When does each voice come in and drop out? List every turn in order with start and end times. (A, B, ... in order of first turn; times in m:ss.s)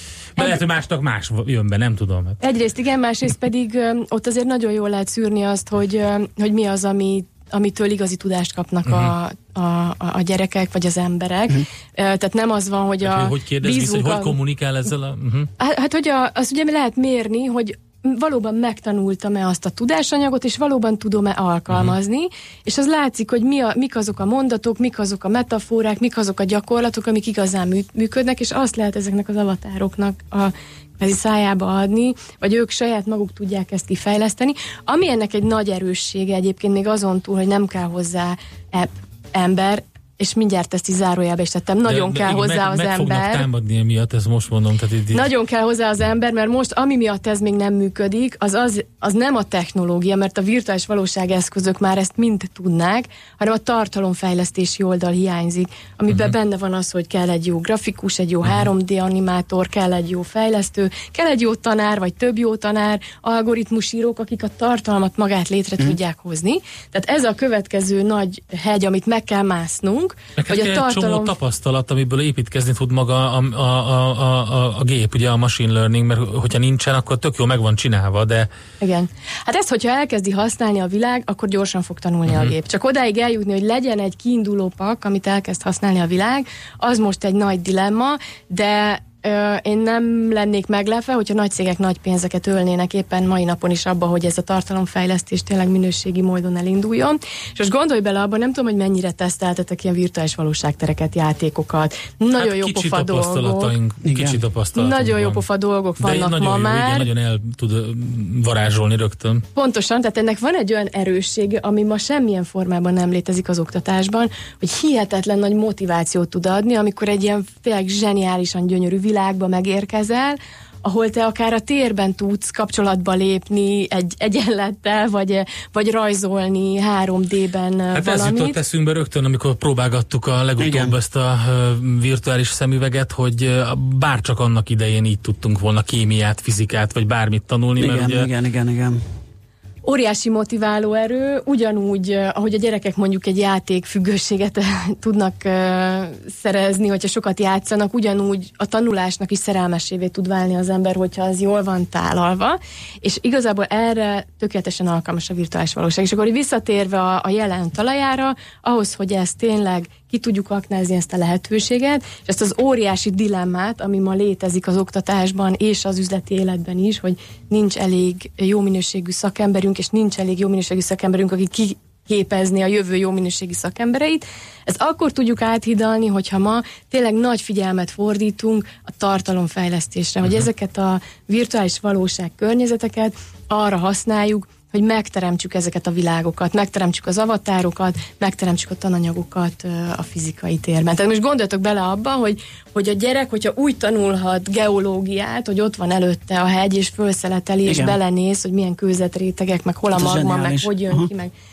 0:00.4-0:02.4 A
0:02.4-0:14.4 B
0:08.9-0:09.1 A
0:13.0-0:15.5 A
0:15.6-0:43.5 B
0:21.7-0:22.0 A
0:41.8-0:45.2 A
0:45.1-1:11.3 B
0:56.1-0:56.4 A
1:10.4-1:18.5 A
1:18.8-1:43.7 B
1:22.3-1:22.6 A
1:42.4-1:45.4 A
1:44.0-1:44.4 C
1:44.8-1:47.1 B
1:46.0-1:49.4 A
1:49.6-2:08.6 B
2:07.9-2:18.3 A
2:10.6-2:10.9 C
2:17.8-2:19.0 C
2:19.8-3:21.3 B
3:17.7-3:18.0 C
3:19.9-3:21.1 C